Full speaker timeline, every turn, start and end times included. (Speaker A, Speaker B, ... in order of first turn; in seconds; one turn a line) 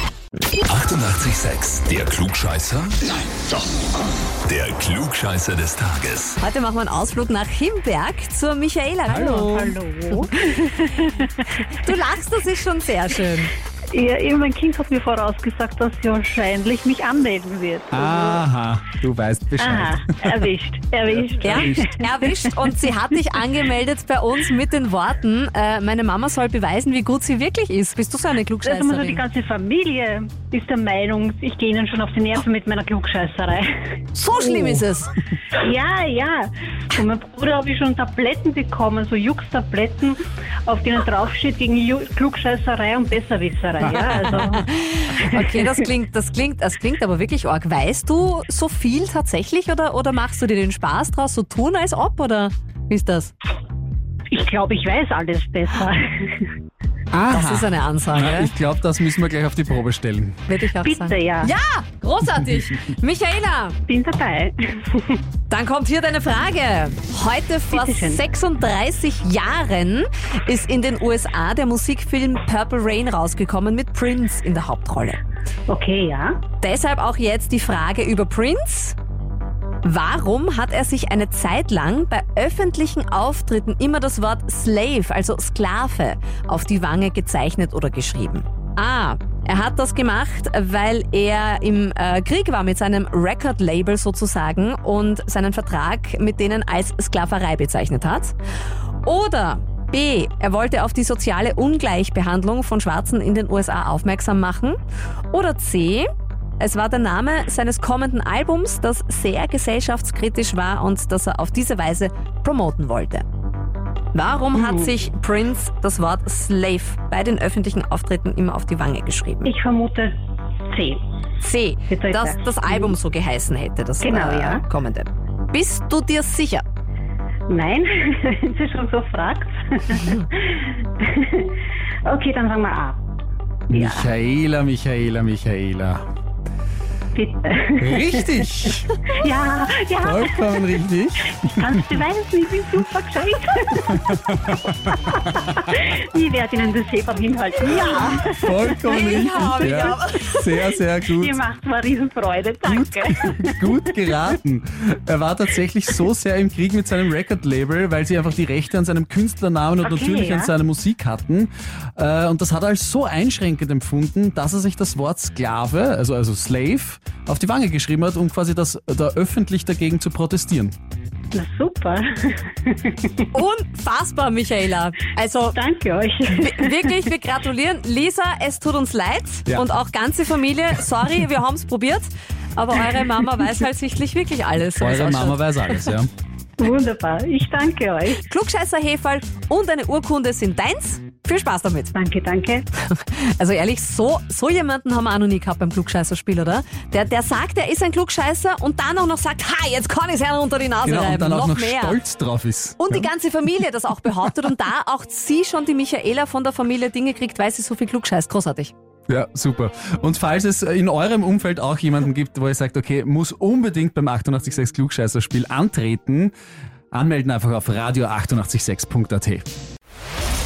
Speaker A: 0.6-3.5
Speaker A: 4.4-6.4
Speaker B: 6.4-9.8
Speaker C: 9.1-11.5
Speaker B: 10.3-10.6
Speaker B: 11.6-13.5
Speaker C: 13.9-18.4
Speaker D: 17.9-20.4
Speaker C: 19.6-22.5
Speaker B: 21.4-29.2
Speaker D: 21.4-21.8
Speaker C: 28.6-33.9
Speaker B: 34.1-35.1
Speaker C: 35.5-45.7
Speaker B: 44.3-53.3
Speaker C: 54.3-56.5
Speaker D: 57.1-60.4
Speaker B: 57.2-58.5
Speaker B: 60.5-63.8
Speaker C: 60.8-61.5
Speaker C: 63.9-65.2
Speaker B: 65.5-75.2
Speaker C: 67.7-68.2
Speaker C: 75.7-76.4
Speaker B: 76.6-79.0
Speaker B: 79.8-98.3
Speaker B: 99.0-104.8
Speaker B: 105.3-106.1
Speaker B: 106.6-113.2
Speaker B: 114.1-119.5
Speaker C: 114.5-114.9
Speaker C: 119.4-120.1
Speaker C: 120.7-121.0
Speaker B: 121.4-126.6
Speaker C: 121.9-122.4
Speaker C: 124.0-124.6
Speaker C: 127.5-133.0
Speaker C: 133.7-134.1
Speaker D: 133.7-136.0
Speaker C: 137.1-138.4
Speaker D: 137.8-138.9
Speaker C: 139.1-140.8
Speaker D: 140.0-141.8
Speaker C: 141.4-144.2
Speaker D: 143.9-144.8
Speaker C: 144.9-150.1
Speaker B: 147.6-150.5
Speaker D: 148.1-151.3
Speaker C: 151.1-153.6
Speaker D: 152.6-170.7
Speaker C: 159.8-160.5
Speaker C: 171.3-173.3
Speaker B: 173.3-175.6
Speaker C: 175.5-176.9
Speaker B: 176.2-185.9
Speaker D: 184.8-186.1
Speaker C: 186.6-188.2
Speaker B: 188.2-191.9
Speaker C: 191.9-192.7
Speaker B: 192.8-202.0
Speaker D: 200.8-203.1
Speaker B: 202.8-208.7
Speaker D: 209.1-216.3
Speaker D: 216.9-219.5